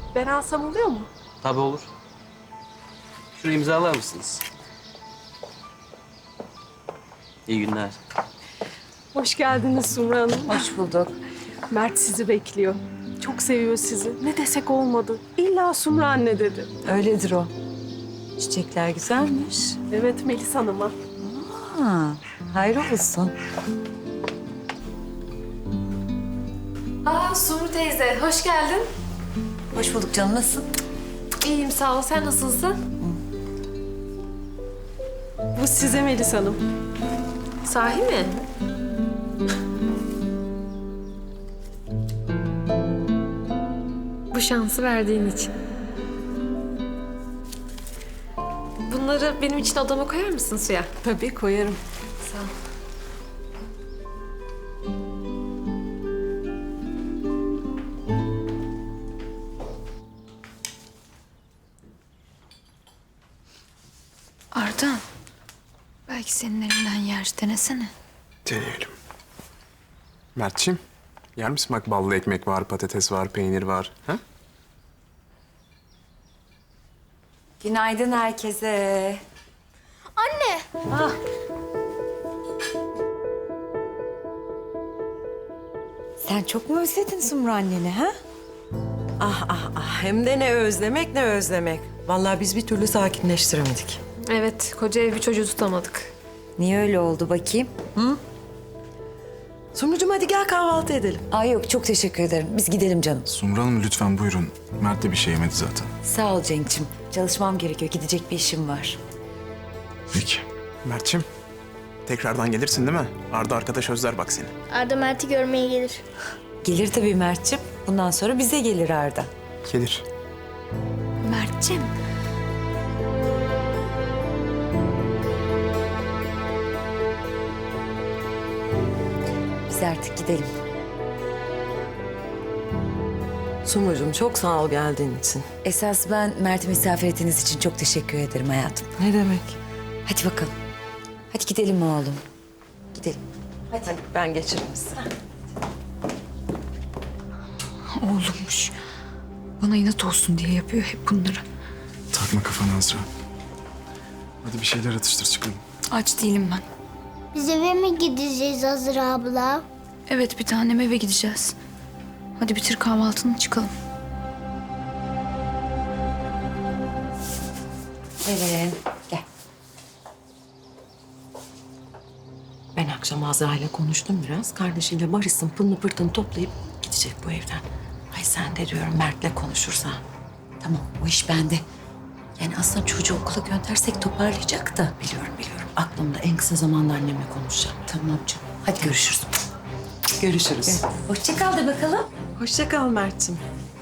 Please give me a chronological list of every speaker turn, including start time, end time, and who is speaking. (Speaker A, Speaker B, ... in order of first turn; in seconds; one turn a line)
Speaker A: 0.1-1.1
Speaker B: 1.4-1.9
Speaker B: 3.4-4.4
Speaker B: 7.5-8.0
Speaker A: 9.1-10.7
Speaker C: 10.5-11.2
Speaker A: 11.7-16.7
Speaker C: 16.8-17.5
Speaker C: 18.4-19.8
Speaker A: 19.9-20.9
Speaker C: 21.2-23.3
Speaker D: 27.0-28.9
Speaker C: 29.7-30.7
Speaker D: 31.4-32.8
Speaker A: 35.5-36.6
Speaker D: 37.6-38.4
Speaker D: 44.3-45.5
Speaker D: 48.9-51.0
Speaker A: 51.0-51.8
Speaker E: 64.5-65.0
Speaker E: 66.1-67.9
Speaker F: 68.5-69.0
Speaker F: 70.3-70.8
Speaker F: 71.4-74.2
Speaker C: 77.6-79.2
Speaker G: 80.2-80.7
Speaker C: 80.9-81.2
Speaker C: 86.2-88.1
Speaker H: 89.2-94.0
Speaker D: 94.3-96.1
Speaker C: 96.6-98.2
Speaker H: 99.8-101.2
Speaker C: 101.3-103.3
Speaker I: 103.3-105.9
Speaker C: 106.0-109.0
Speaker I: 110.1-110.4
Speaker F: 110.8-111.3
Speaker F: 112.1-114.5
Speaker G: 114.7-116.0
Speaker C: 116.6-119.3
Speaker F: 119.7-120.0
Speaker E: 121.2-121.9
Speaker C: 129.7-130.5
Speaker H: 133.6-135.5
Speaker C: 135.6-138.9
Speaker H: 139.0-139.6
Speaker C: 140.1-140.5
Speaker C: 141.3-142.2
Speaker C: 142.9-143.2
Speaker H: 143.7-145.1
Speaker E: 148.0-148.7
Speaker E: 149.6-151.4
Speaker I: 152.1-153.1
Speaker I: 154.4-155.6
Speaker E: 155.9-156.6
Speaker G: 157.3-159.6
Speaker E: 160.1-161.5
Speaker E: 162.4-163.7
Speaker C: 168.2-169.2
Speaker H: 172.7-180.0
Speaker C: 180.6-181.6
Speaker C: 182.4-185.3
Speaker H: 185.2-187.8
Speaker C: 187.7-189.3
Speaker C: 190.2-192.1
Speaker H: 190.2-190.8
Speaker H: 192.3-193.4